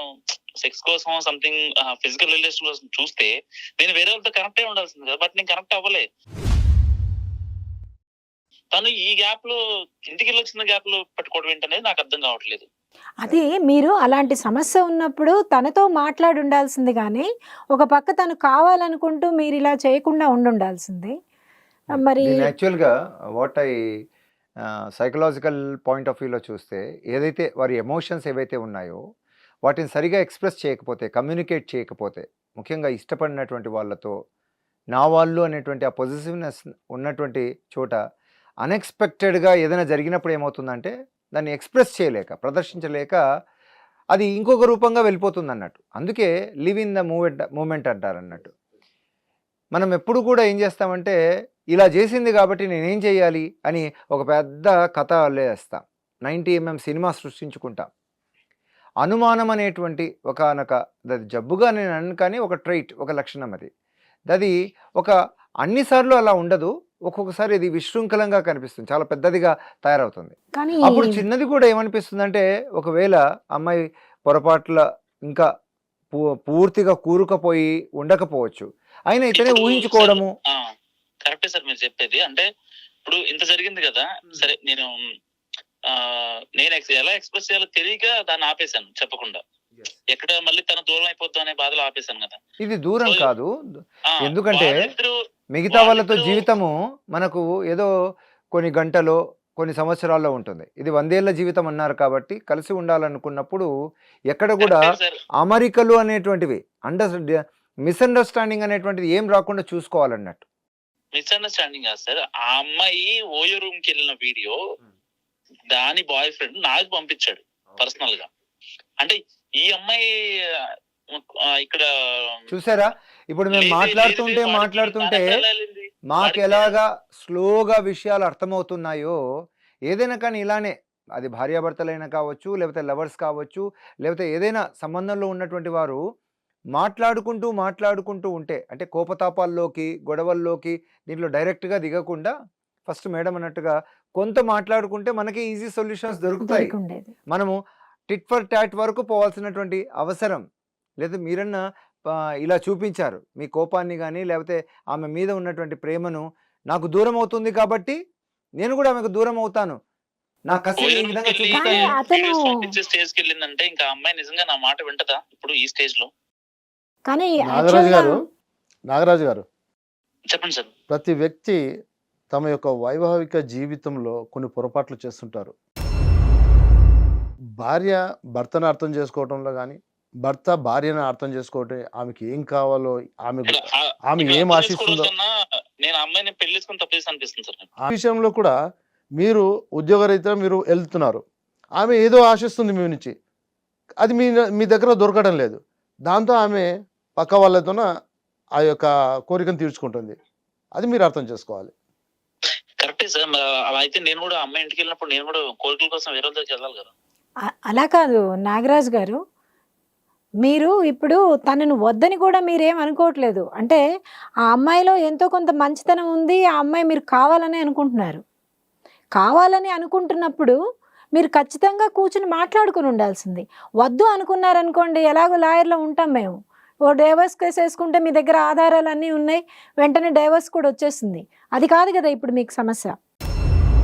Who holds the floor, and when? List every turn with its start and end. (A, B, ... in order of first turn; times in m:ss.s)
0:00.6-0:06.0 A
0:08.7-0:09.6 A
0:10.1-0:12.7 A
0:13.2-0:21.1 B
0:21.9-0:22.5 B
0:22.2-0:23.7 C
0:25.0-0:29.0 C
0:29.6-0:34.1 C
0:34.9-0:38.0 C
0:38.6-0:43.2 C
0:44.1-0:48.5 C
0:49.7-0:51.2 C
0:51.7-0:57.9 C
0:59.0-1:03.7 C
1:04.3-1:10.3 C
1:10.5-1:11.2 B
1:10.8-1:15.5 C
1:16.2-1:20.3 C
1:19.3-1:20.7 A
1:21.2-1:22.4 A
1:23.0-1:24.9 A
1:25.9-1:29.4 A
1:30.1-1:32.4 A
1:32.6-1:33.5 C
1:33.0-1:33.3 A
1:34.2-1:34.8 C
1:34.4-1:35.1 A
1:35.5-1:37.9 C
1:35.7-1:36.4 A
1:38.5-1:43.7 C
1:44.3-1:47.2 C
1:44.6-1:45.2 A
1:47.8-1:50.4 C
1:51.1-1:54.6 A
1:55.7-1:58.3 A
1:59.0-2:00.0 A
2:01.6-2:02.4 A
2:02.5-2:05.2 C
2:03.5-2:06.7 A
2:06.1-2:09.2 C
2:09.9-2:16.0 C
2:16.7-2:22.3 C
2:22.9-2:26.7 C
2:26.4-2:27.1 B
2:28.1-2:30.4 C
2:31.0-2:31.6 C
2:32.4-2:38.0 C
2:38.6-2:39.8 C
2:40.5-2:41.9 C
2:40.8-2:46.1 A
2:41.5-2:42.7 B
2:47.1-2:48.2 B
2:47.5-2:48.2 D
2:48.9-2:49.4 D
2:50.3-2:50.7 A
2:50.9-2:51.6 D
2:52.3-2:55.5 D
2:57.6-3:05.1 D
3:03.5-3:05.3 A
3:05.8-3:07.7 A
3:07.8-3:08.6 D
3:09.2-3:11.2 D
3:11.8-3:13.1 D
3:14.0-3:17.9 D
3:18.6-3:20.2 D
3:20.8-3:21.7 D
3:22.8-3:26.9 A
3:27.7-3:29.2 B
3:30.4-3:33.8 B
3:34.5-3:38.2 B
3:39.2-3:40.6 B
3:41.1-3:46.3 B
3:46.9-3:53.0 B